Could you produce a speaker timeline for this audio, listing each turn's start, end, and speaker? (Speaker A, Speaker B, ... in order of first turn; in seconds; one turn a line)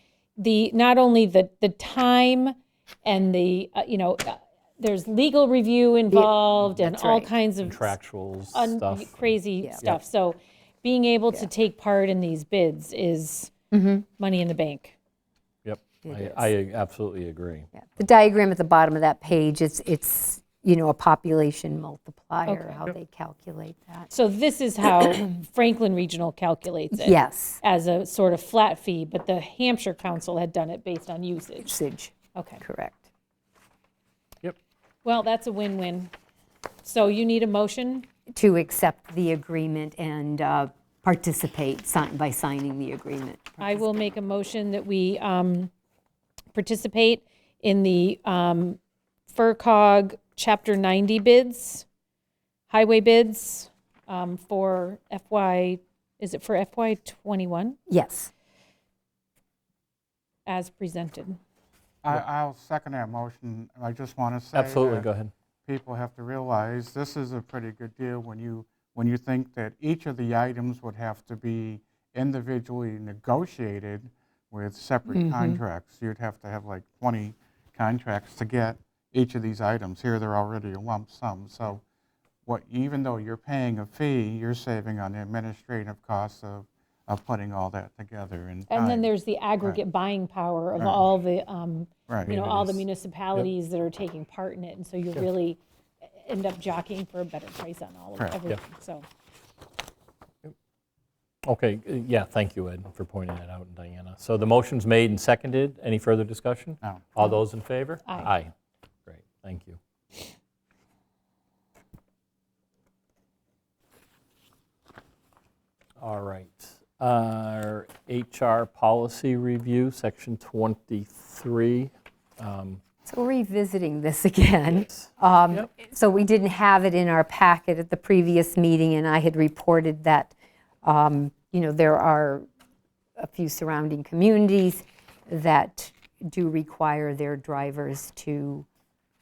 Speaker A: 0.4-8.0
Speaker B: 6.1-7.3
Speaker C: 7.6-10.0
Speaker A: 8.5-13.5
Speaker B: 9.6-9.9
Speaker B: 13.7-14.1
Speaker A: 14.2-14.9
Speaker C: 15.6-17.7
Speaker B: 16.1-16.5
Speaker B: 17.8-24.1
Speaker A: 22.5-22.8
Speaker A: 24.1-31.7
Speaker B: 26.9-27.6
Speaker B: 31.6-33.1
Speaker A: 32.4-32.6
Speaker A: 35.0-36.1
Speaker A: 36.8-38.1
Speaker B: 38.3-44.0
Speaker A: 43.6-45.7
Speaker A: 46.5-48.8
Speaker A: 49.3-51.9
Speaker A: 52.7-57.8
Speaker B: 57.9-58.3
Speaker A: 60.5-61.4
Speaker D: 62.0-65.1
Speaker C: 64.5-65.3
Speaker D: 65.7-81.8
Speaker B: 75.1-75.6
Speaker D: 82.5-89.8
Speaker A: 88.7-95.6
Speaker D: 90.8-91.0
Speaker D: 92.1-92.5
Speaker C: 92.4-92.8
Speaker A: 96.2-99.1
Speaker C: 101.5-108.5
Speaker D: 106.8-107.1
Speaker A: 108.1-108.3
Speaker C: 109.1-109.8
Speaker C: 116.0-122.8
Speaker B: 123.1-132.5
Speaker C: 124.8-125.7
Speaker B: 133.2-138.7